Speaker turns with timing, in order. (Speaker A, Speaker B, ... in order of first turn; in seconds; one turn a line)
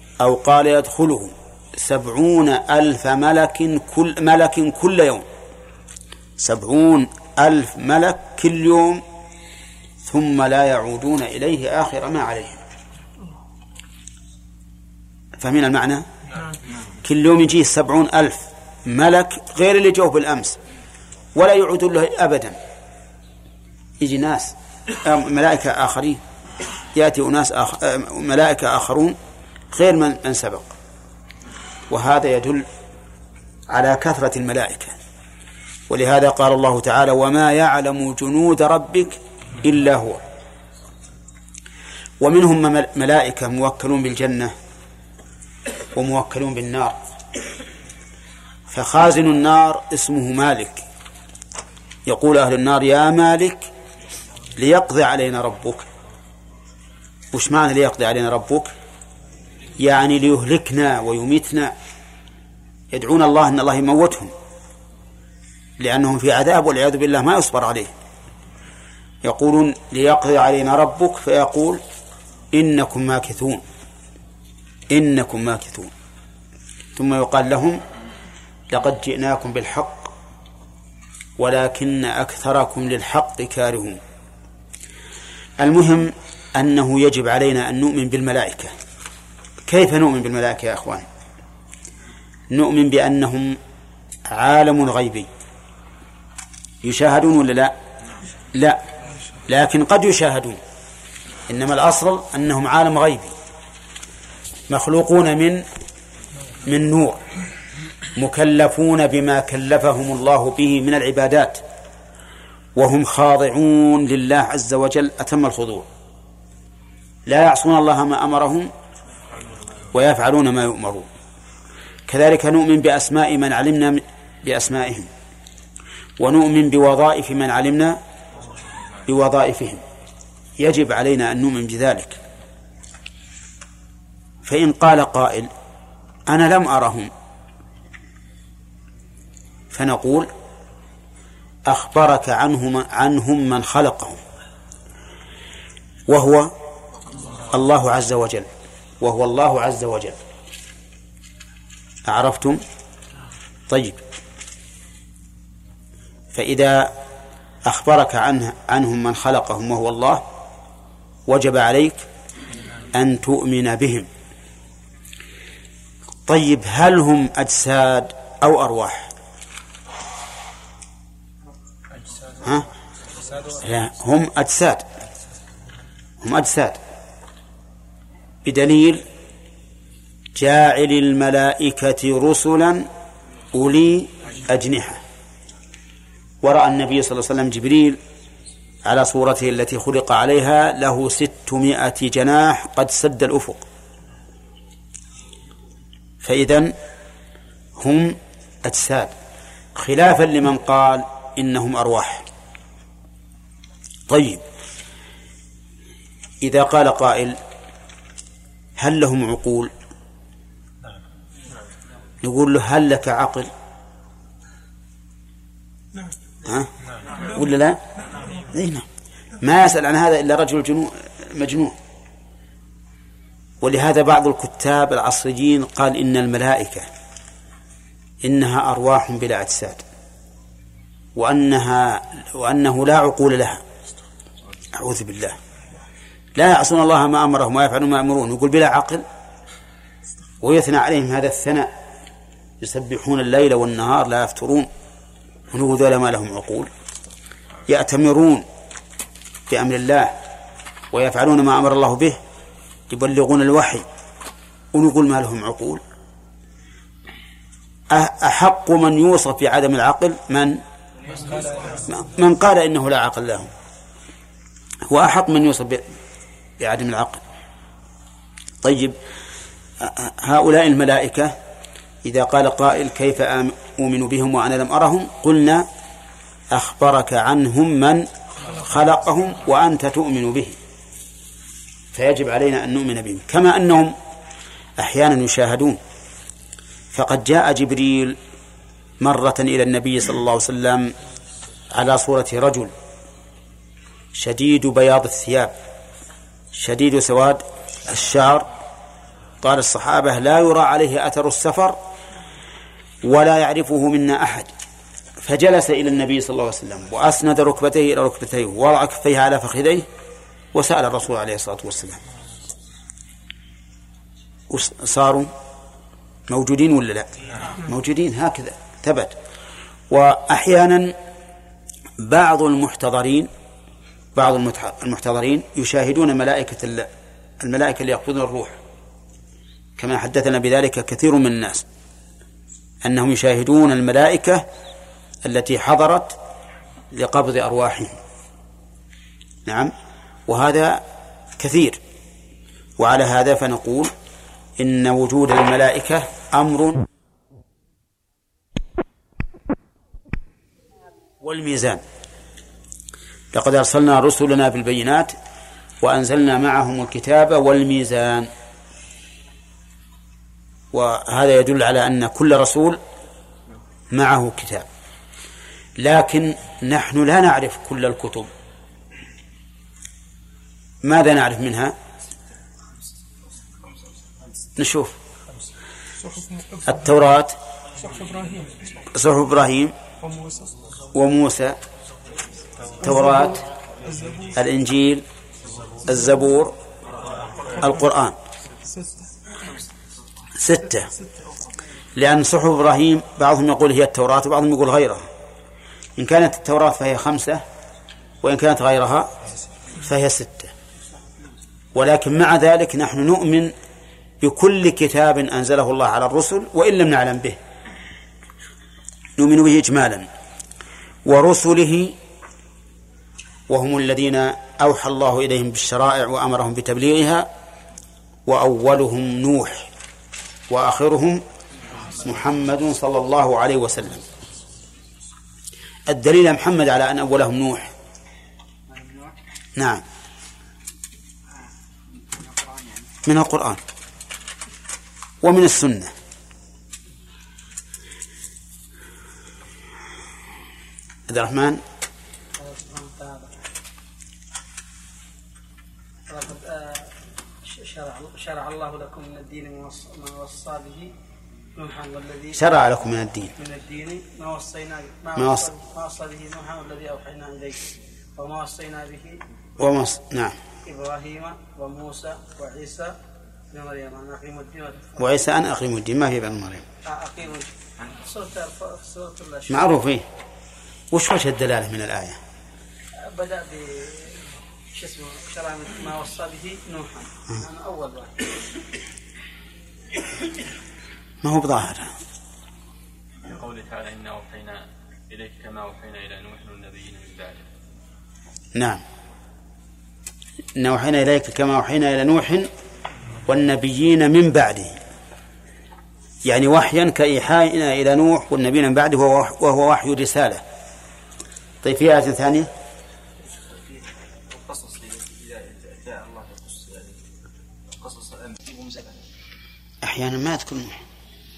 Speaker A: 0.2-5.3
Speaker A: 6.4-9.0
Speaker A: 10.0-12.6
Speaker A: 15.4-16.1
Speaker A: 17.0-20.6
Speaker A: 21.4-22.6
Speaker A: 24.0-26.2
Speaker A: 26.9-29.2
Speaker A: 29.7-30.7
Speaker A: 31.9-32.6
Speaker A: 33.7-35.0
Speaker A: 35.9-40.2
Speaker A: 42.2-44.5
Speaker A: 45.9-47.0
Speaker A: 48.7-50.9
Speaker A: 52.1-53.7
Speaker A: 54.6-55.9
Speaker A: 57.3-58.7
Speaker A: 59.8-61.7
Speaker A: 62.9-64.3
Speaker A: 65.8-67.9
Speaker A: 69.2-71.8
Speaker A: 72.5-73.6
Speaker A: 74.9-75.9
Speaker A: 77.0-77.8
Speaker A: 78.7-80.1
Speaker A: 81.4-84.0
Speaker A: 85.6-88.7
Speaker A: 89.7-91.1
Speaker A: 92.5-93.6
Speaker A: 94.3-95.3
Speaker A: 96.8-97.7
Speaker A: 98.5-98.8
Speaker A: 99.5-100.6
Speaker A: 101.5-103.3
Speaker A: 104.7-105.7
Speaker A: 106.7-107.2
Speaker A: 108.2-111.6
Speaker A: 112.8-115.9
Speaker A: 117.3-118.7
Speaker A: 119.9-121.1
Speaker A: 122.1-125.1
Speaker A: 126.2-128.0
Speaker A: 129.1-129.8
Speaker A: 130.6-132.2
Speaker A: 134.4-135.5
Speaker A: 136.3-137.1
Speaker A: 139.7-140.3
Speaker A: 141.7-144.2
Speaker A: 146.1-146.5
Speaker A: 147.5-148.5
Speaker A: 149.0-150.2
Speaker A: 152.1-152.6
Speaker A: 153.7-154.0
Speaker A: 156.3-156.9
Speaker A: 157.7-160.2
Speaker A: 161.3-162.1
Speaker A: 162.9-164.1
Speaker A: 166.3-169.1
Speaker A: 173.6-174.8
Speaker A: 176.2-176.8
Speaker A: 178.4-179.0
Speaker A: 180.4-182.9
Speaker A: 183.5-185.0
Speaker A: 186.4-188.0
Speaker A: 188.8-193.6
Speaker A: 196.2-196.7
Speaker A: 197.8-199.1
Speaker A: 199.8-202.3
Speaker A: 204.1-204.4
Speaker A: 206.4-207.4
Speaker A: 208.8-209.7
Speaker A: 212.2-213.5
Speaker A: 216.4-216.7
Speaker A: 217.2-217.8
Speaker A: 218.4-218.9
Speaker A: 219.4-221.8
Speaker A: 223.6-226.9
Speaker A: 228.2-229.8
Speaker A: 231.2-233.6
Speaker A: 234.7-235.4
Speaker A: 236.3-239.0
Speaker A: 240.4-241.7
Speaker A: 242.6-244.7
Speaker A: 245.5-246.7
Speaker A: 247.7-248.5
Speaker A: 249.5-250.1
Speaker A: 250.9-252.2
Speaker A: 252.9-253.9
Speaker A: 254.7-255.8
Speaker A: 257.9-260.6
Speaker B: 261.1-261.8
Speaker A: 261.9-263.5
Speaker A: 264.9-265.8
Speaker A: 266.6-267.2
Speaker A: 268.6-268.9
Speaker A: 269.8-271.4
Speaker A: 272.0-275.7
Speaker A: 276.5-280.6
Speaker A: 281.9-283.9
Speaker A: 284.8-285.8
Speaker A: 286.9-288.2
Speaker A: 289.0-290.9
Speaker A: 291.7-292.7
Speaker A: 294.1-295.5
Speaker A: 296.5-298.5
Speaker A: 299.4-301.8
Speaker A: 303.0-304.5
Speaker A: 305.2-309.9
Speaker A: 310.5-312.0
Speaker A: 314.5-315.3
Speaker A: 316.3-319.1
Speaker A: 319.9-320.9
Speaker A: 322.0-323.3
Speaker A: 324.1-326.9
Speaker A: 327.4-328.6
Speaker A: 329.8-331.6
Speaker A: 332.8-334.5
Speaker A: 335.2-336.2
Speaker A: 336.9-338.0
Speaker A: 339.5-339.7
Speaker A: 340.3-340.8
Speaker A: 341.4-341.8
Speaker A: 342.8-343.9
Speaker A: 344.6-346.9
Speaker A: 351.2-351.8
Speaker A: 353.3-355.1
Speaker A: 355.8-358.3
Speaker A: 360.7-362.8
Speaker A: 363.9-364.7
Speaker A: 365.8-368.3
Speaker A: 370.8-371.8
Speaker A: 374.6-375.0
Speaker A: 376.6-377.4
Speaker B: 378.0-378.5
Speaker A: 378.9-379.7
Speaker A: 380.9-381.6
Speaker A: 382.8-383.4
Speaker A: 384.3-385.0
Speaker A: 385.9-386.6
Speaker A: 387.6-388.2
Speaker A: 390.4-390.9
Speaker A: 391.9-395.1
Speaker A: 396.0-397.4
Speaker A: 398.2-399.1
Speaker A: 399.8-400.5
Speaker A: 401.7-403.5
Speaker A: 404.2-407.4
Speaker A: 409.2-410.1
Speaker A: 411.1-412.0
Speaker A: 413.5-417.3
Speaker A: 418.3-419.7
Speaker A: 420.5-421.2
Speaker A: 422.0-424.0
Speaker A: 425.9-427.7
Speaker B: 428.7-429.2
Speaker A: 429.6-429.8
Speaker B: 432.3-432.7
Speaker A: 433.1-433.6
Speaker A: 435.2-435.9
Speaker A: 441.1-441.6
Speaker B: 442.4-443.4
Speaker B: 446.1-450.9
Speaker B: 451.6-452.4
Speaker A: 452.4-453.3
Speaker B: 453.4-459.2
Speaker A: 455.2-455.5
Speaker A: 459.6-460.4
Speaker B: 460.6-463.0
Speaker B: 463.5-465.1
Speaker A: 465.0-466.6
Speaker B: 466.9-469.8
Speaker A: 469.5-470.1
Speaker A: 470.9-472.2
Speaker B: 473.0-474.2
Speaker B: 474.7-478.3
Speaker A: 481.2-481.9
Speaker C: 483.2-487.5
Speaker A: 488.6-488.8
Speaker A: 490.6-492.5
Speaker A: 493.3-494.8
Speaker A: 496.2-500.4
Speaker A: 501.6-502.5
Speaker C: 504.3-506.9
Speaker C: 507.8-508.9
Speaker A: 509.8-510.8